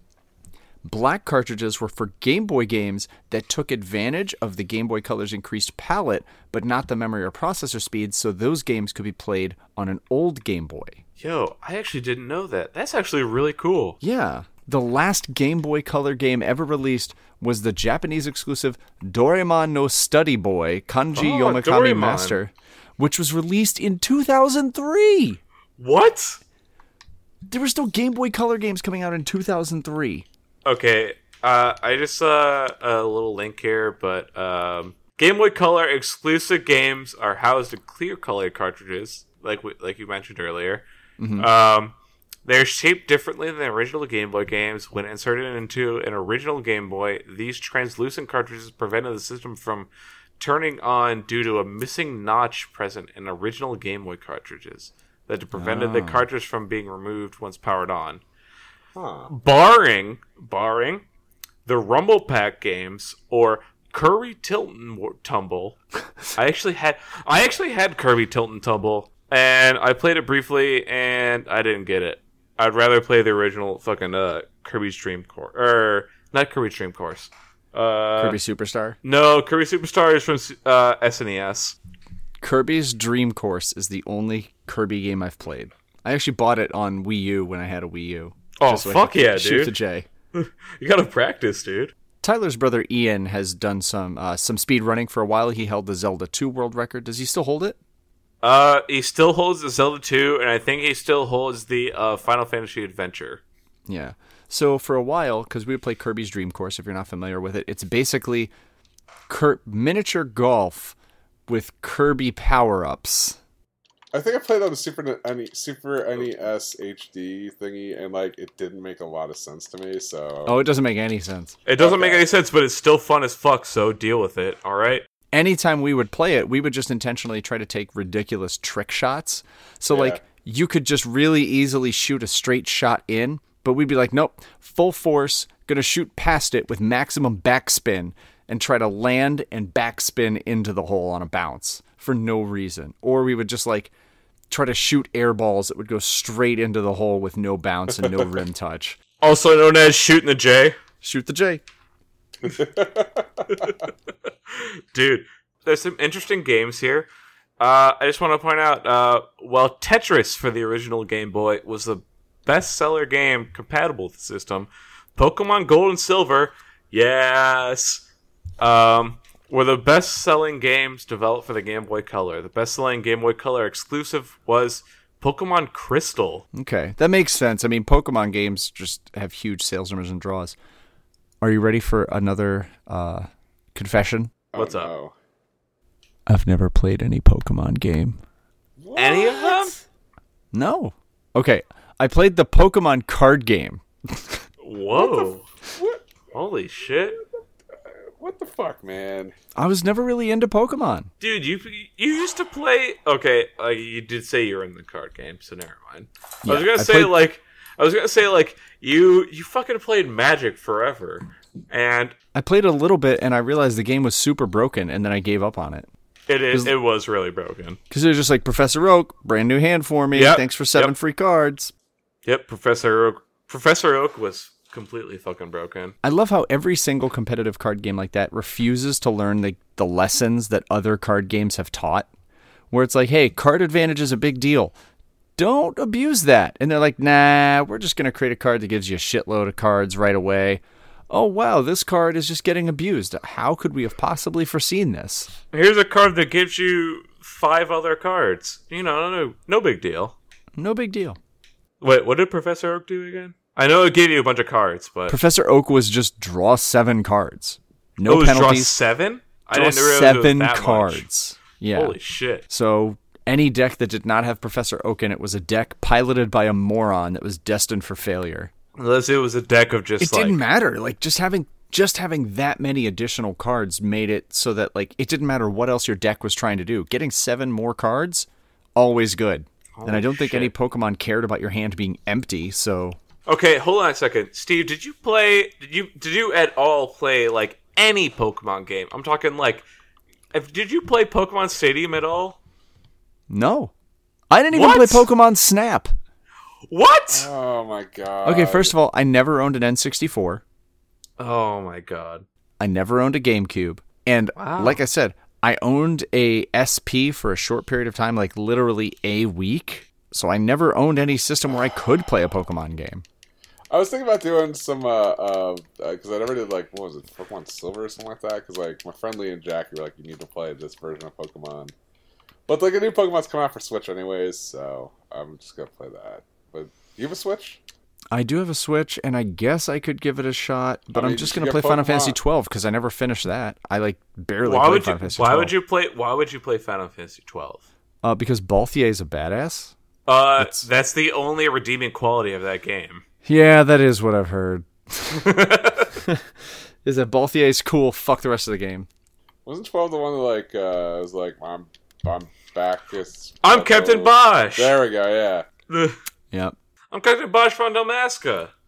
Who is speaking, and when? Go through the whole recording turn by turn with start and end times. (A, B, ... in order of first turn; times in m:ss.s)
0:00.8-0:11.0 A
0:11.2-0:14.0 B
0:14.0-0:25.4 A
0:21.1-0:22.4 B
0:25.8-0:26.4 B
0:27.5-0:30.2 A
0:30.6-0:40.8 B
0:41.2-0:41.5 A
0:41.4-0:58.2 B
0:55.5-0:56.2 A
0:58.9-0:59.3 C
0:59.3-1:01.0 B
1:01.6-1:05.8 B
1:06.4-1:18.4 B
1:18.2-1:19.0 A
1:19.0-1:21.8 B
1:22.4-1:30.1 A
1:28.6-1:29.7 B
1:30.3-1:31.9 B
1:32.2-1:37.8 A
1:38.4-1:43.4 B
1:43.9-1:48.5 A
1:49.3-1:51.0 A
1:51.5-1:53.4 A
1:54.1-2:00.6 C
2:00.4-2:01.6 A
2:01.6-2:05.0 B
2:01.8-2:02.2 C
2:05.3-2:23.9 A
2:09.9-2:10.2 C
2:24.5-2:29.0 A
2:28.0-2:28.3 C
2:29.2-2:30.8 B
2:31.0-2:31.6 A
2:32.4-2:33.7 C
2:34.5-2:37.1 B
2:37.6-2:48.0 B
2:48.6-2:56.4 B
2:56.5-3:00.6 A
3:01.4-3:04.3 A
3:04.5-3:05.1 C
3:04.6-3:04.9 B
3:06.3-3:08.2 A
3:08.8-3:09.8 C
3:09.0-3:09.7 B
3:10.5-3:14.4 A
3:14.6-3:15.4 B
3:14.9-3:16.0 C
3:16.3-3:17.2 B
3:17.9-3:19.3 C
3:19.5-3:21.1 A
3:21.2-3:32.1 B
3:26.4-3:27.1 A
3:32.3-3:35.9 A
3:36.3-3:37.8 B
3:37.9-3:41.7 A
3:40.1-3:40.9 B
3:42.2-3:45.9 B
3:46.0-3:52.1 A
3:52.7-3:54.7 A
3:55.4-4:05.3 A
4:05.5-4:10.1 B
4:10.6-4:11.2 A
4:11.8-4:15.2 B
4:15.1-4:18.7 A
4:18.0-4:21.0 B
4:19.5-4:22.0 A
4:21.7-4:22.4 B
4:22.5-4:28.5 A
4:28.8-4:30.4 B
4:30.0-4:43.0 A
4:39.8-4:40.5 B
4:43.2-4:49.6 B
4:50.3-4:52.4 B
4:53.3-4:53.7 A
4:54.3-4:55.9 A
4:54.5-4:55.0 B
4:56.7-4:57.3 B
4:57.1-4:58.7 C
4:58.2-5:00.4 A
5:01.2-5:02.2 B
5:02.6-5:13.0 A
5:04.4-5:04.8 B
5:13.7-5:21.7 C
5:22.5-5:27.6 C
5:28.1-5:35.5 A
5:30.9-5:32.2 C
5:34.4-5:37.6 B
5:38.0-5:39.7 A
5:40.1-5:43.0 B
5:40.4-5:40.6 A
5:43.2-5:45.4 A
5:45.1-5:45.9 B
5:45.9-5:46.2 A
5:46.8-5:48.9 A
5:49.4-5:55.4 C
5:53.4-5:54.8 B
5:55.7-5:56.0 B
5:56.9-5:58.5 B